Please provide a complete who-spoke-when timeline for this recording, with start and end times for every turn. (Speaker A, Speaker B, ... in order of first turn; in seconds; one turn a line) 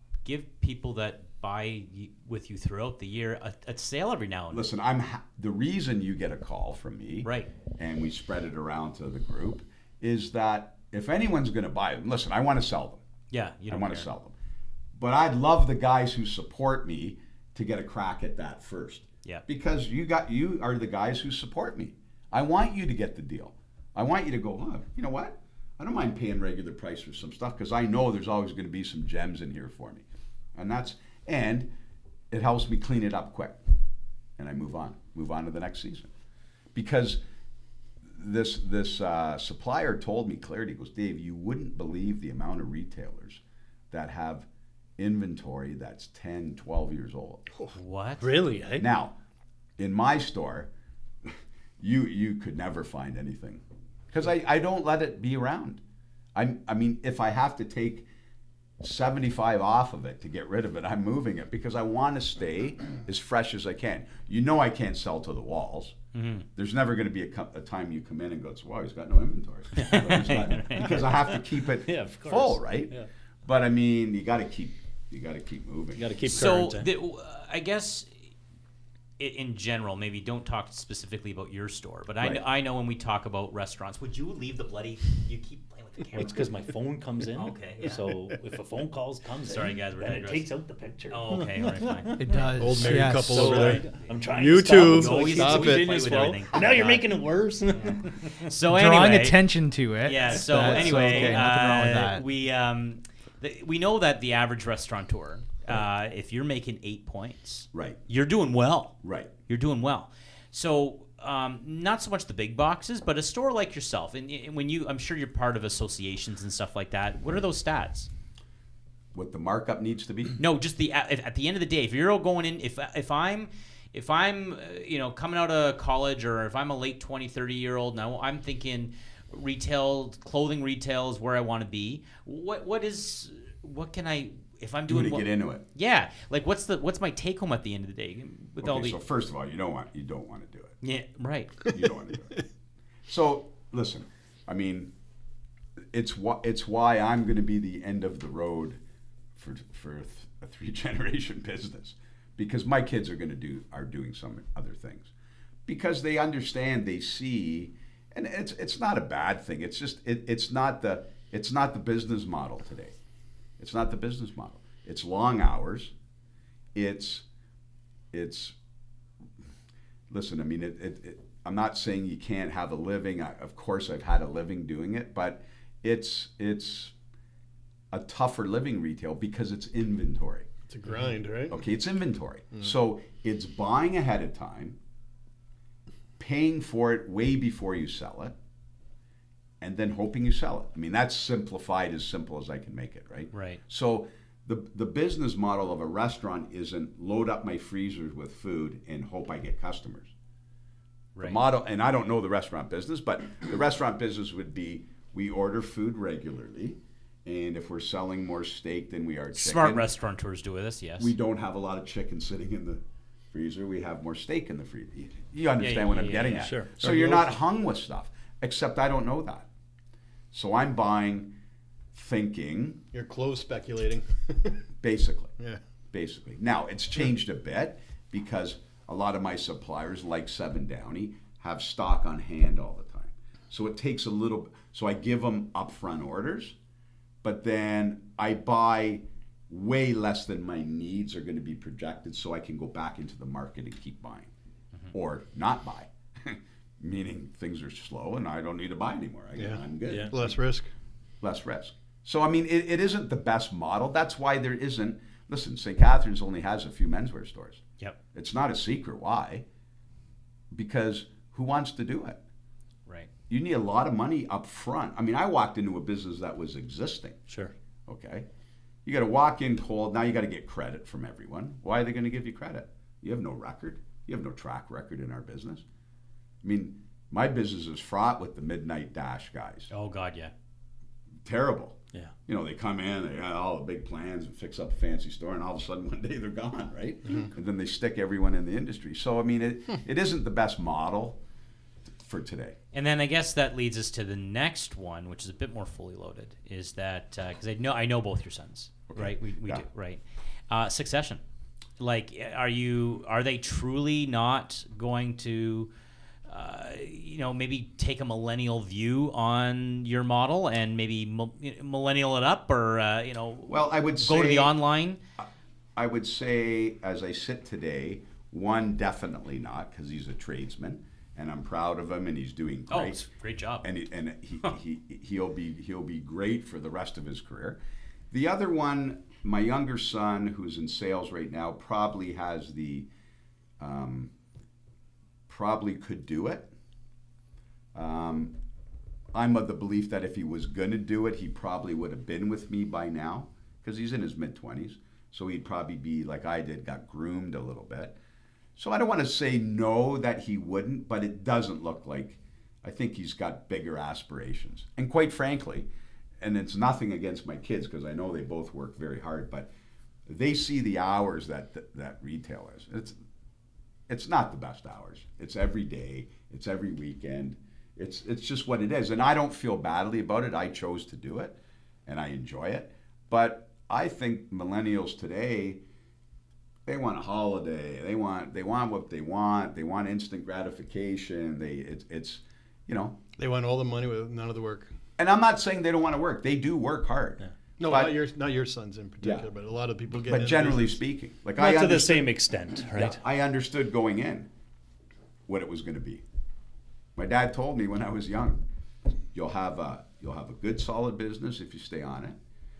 Speaker A: 0.2-4.7
Speaker B: 4.5-13.0
Speaker A: 7.2-7.5
Speaker A: 13.3-14.1
Speaker B: 13.7-14.3
Speaker B: 14.9-31.7
Speaker B: 32.3-33.7
Speaker B: 34.4-36.1
Speaker B: 36.8-37.2
Speaker B: 38.1-44.5
Speaker B: 45.0-47.5
Speaker A: 47.7-48.3
Speaker C: 48.2-48.9
Speaker B: 48.8-49.1
Speaker B: 49.8-50.7
Speaker B: 51.2-55.8
Speaker B: 56.3-58.1
Speaker B: 58.8-66.0
Speaker A: 66.1-66.5
Speaker B: 66.5-76.1
Speaker A: 69.8-71.1
Speaker C: 71.0-73.1
Speaker C: 76.0-76.9
Speaker A: 76.3-78.1
Speaker A: 79.2-86.3
Speaker C: 86.1-92.1
Speaker A: 87.3-88.3
Speaker A: 89.4-90.5
Speaker A: 91.1-92.5
Speaker D: 92.2-93.6
Speaker E: 92.6-96.3
Speaker C: 93.2-98.5
Speaker A: 94.8-97.1
Speaker A: 97.7-99.5
Speaker D: 98.7-102.2
Speaker A: 100.0-118.1
Speaker C: 100.5-101.4
Speaker B: 107.7-108.0
Speaker B: 109.0-109.3
Speaker B: 119.1-120.4
Speaker A: 120.4-139.0
Speaker B: 134.9-135.6
Speaker B: 138.6-140.8
Speaker A: 140.8-141.6
Speaker B: 141.7-142.4
Speaker B: 143.1-144.9
Speaker B: 145.9-148.8
Speaker B: 149.3-155.1
Speaker B: 155.7-162.9
Speaker B: 163.6-165.9
Speaker B: 166.7-167.2
Speaker B: 168.1-168.6
Speaker B: 170.1-176.9
Speaker B: 177.9-180.5
Speaker E: 180.7-181.6
Speaker B: 181.5-184.8
Speaker B: 186.2-188.3
Speaker B: 189.6-200.1
Speaker A: 193.3-193.6
Speaker B: 201.2-209.9
Speaker A: 209.3-211.1
Speaker B: 211.0-212.8
Speaker B: 213.3-219.5
Speaker A: 215.6-216.4
Speaker C: 216.2-216.7
Speaker E: 216.8-217.3
Speaker B: 220.3-221.3
Speaker B: 221.9-222.8
Speaker E: 222.9-224.6
Speaker B: 224.8-225.3
Speaker B: 225.9-236.6
Speaker B: 237.2-244.3
Speaker B: 244.9-250.3
Speaker E: 249.3-250.7
Speaker C: 249.8-250.1
Speaker B: 251.2-257.6
Speaker B: 258.1-259.4
Speaker B: 260.5-262.2
Speaker B: 263.3-267.2
Speaker B: 267.9-268.2
Speaker B: 268.9-275.6
Speaker B: 276.4-279.7
Speaker A: 279.7-280.3
Speaker B: 281.2-291.2
Speaker B: 292.0-292.6
Speaker A: 292.7-301.2
Speaker B: 298.9-299.6
Speaker A: 301.8-305.7
Speaker A: 306.3-315.0
Speaker B: 313.5-314.6
Speaker B: 315.8-323.0
Speaker A: 322.7-323.7
Speaker B: 323.6-327.6
Speaker B: 328.1-332.9
Speaker B: 333.6-334.1
Speaker B: 335.3-336.5
Speaker B: 337.7-338.3
Speaker B: 339.1-347.9
Speaker B: 348.6-355.7
Speaker B: 356.2-359.5
Speaker B: 360.1-362.9
Speaker B: 363.9-375.6
Speaker B: 376.7-383.0
Speaker E: 383.2-384.7
Speaker B: 385.0-388.0
Speaker E: 387.6-390.7
Speaker B: 389.0-389.3
Speaker B: 390.0-392.2
Speaker C: 391.4-393.0
Speaker B: 392.7-394.3
Speaker B: 395.3-396.0
Speaker B: 396.9-398.4
Speaker B: 399.1-402.2